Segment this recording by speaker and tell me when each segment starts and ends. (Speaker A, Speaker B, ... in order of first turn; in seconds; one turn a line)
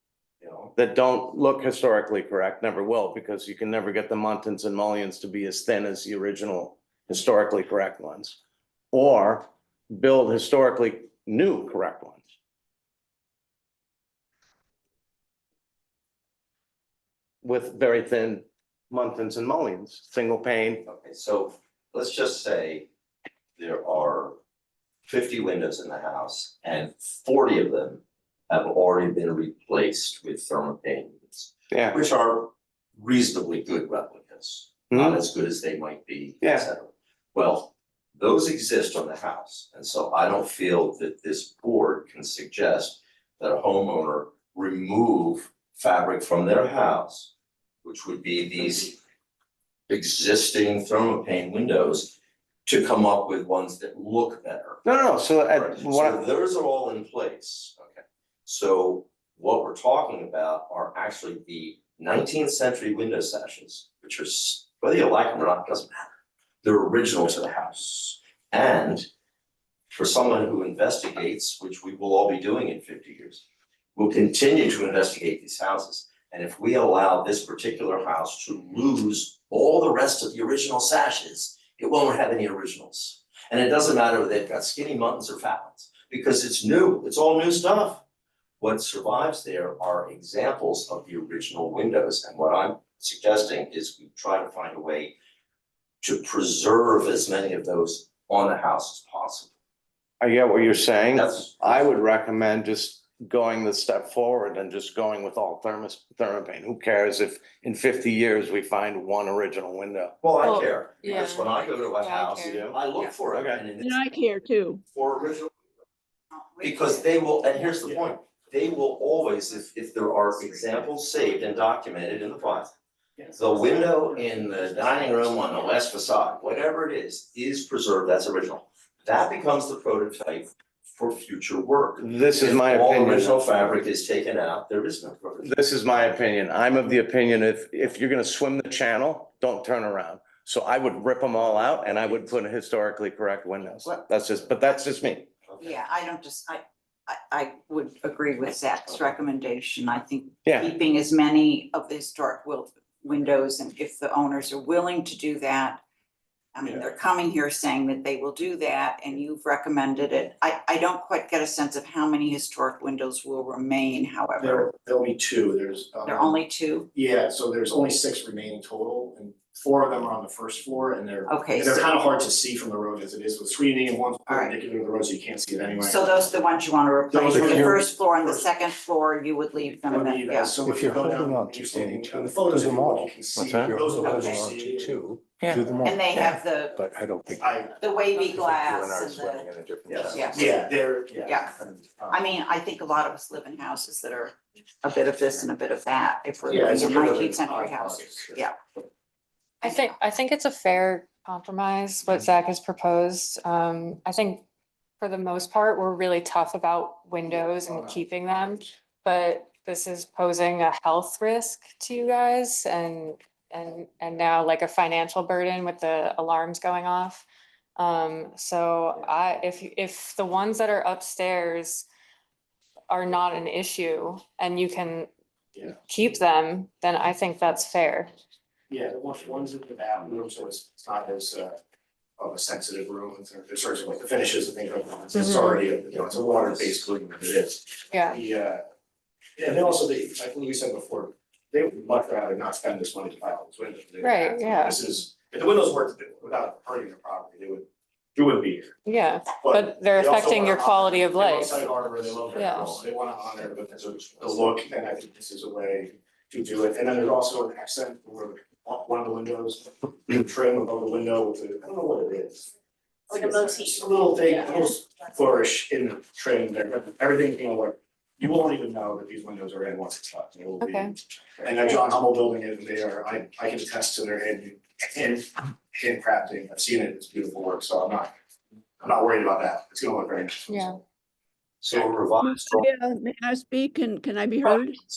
Speaker A: 0.4-0.7
Speaker B: 0.8-8.4
Speaker B: 8.9-12.3
Speaker B: 17.4-20.9
Speaker A: 20.9-22.9
Speaker A: 23.6-24.4
Speaker A: 25.1-47.3
Speaker B: 31.7-32.0
Speaker B: 34.9-35.2
Speaker B: 36.4-36.7
Speaker A: 47.8-49.0
Speaker A: 49.9-52.1
Speaker A: 52.7-54.9
Speaker B: 54.8-56.2
Speaker A: 55.5-69.1
Speaker A: 69.9-73.4
Speaker A: 74.0-88.0
Speaker A: 88.6-95.2
Speaker A: 96.0-99.5
Speaker B: 100.2-110.2
Speaker A: 101.1-102.0
Speaker A: 110.2-114.0
Speaker C: 110.4-113.1
Speaker B: 112.4-112.8
Speaker B: 113.3-113.7
Speaker D: 113.8-114.8
Speaker A: 114.9-115.5
Speaker E: 116.3-117.6
Speaker A: 116.6-122.7
Speaker F: 123.2-125.1
Speaker A: 123.4-135.5
Speaker B: 132.0-133.4
Speaker B: 135.4-145.3
Speaker E: 145.6-155.8
Speaker B: 150.4-150.7
Speaker E: 156.5-164.7
Speaker F: 156.6-156.9
Speaker F: 164.4-166.4
Speaker E: 166.0-166.9
Speaker F: 166.9-176.2
Speaker E: 171.3-171.9
Speaker E: 174.3-174.6
Speaker E: 175.8-180.6
Speaker F: 177.1-178.5
Speaker G: 177.3-177.8
Speaker F: 179.9-185.9
Speaker G: 180.7-187.5
Speaker E: 183.9-184.4
Speaker E: 185.8-186.8
Speaker F: 187.4-187.8
Speaker E: 187.8-189.5
Speaker G: 188.3-190.5
Speaker F: 189.9-192.2
Speaker E: 190.1-190.6
Speaker E: 191.2-191.6
Speaker E: 192.1-198.6
Speaker F: 196.4-198.4
Speaker C: 199.6-204.4
Speaker C: 205.0-217.2
Speaker F: 207.3-208.0
Speaker C: 217.8-221.9
Speaker C: 222.9-225.1
Speaker C: 225.7-228.1
Speaker F: 228.7-231.6
Speaker F: 232.2-238.6
Speaker C: 235.2-235.6
Speaker C: 237.9-238.2
Speaker F: 239.4-248.8
Speaker C: 244.0-244.8
Speaker C: 248.8-251.6
Speaker F: 249.4-262.5
Speaker C: 252.3-252.8
Speaker F: 263.1-278.1
Speaker C: 270.6-270.9
Speaker F: 278.8-280.8
Speaker C: 280.5-280.8
Speaker A: 281.6-282.7
Speaker D: 282.2-284.8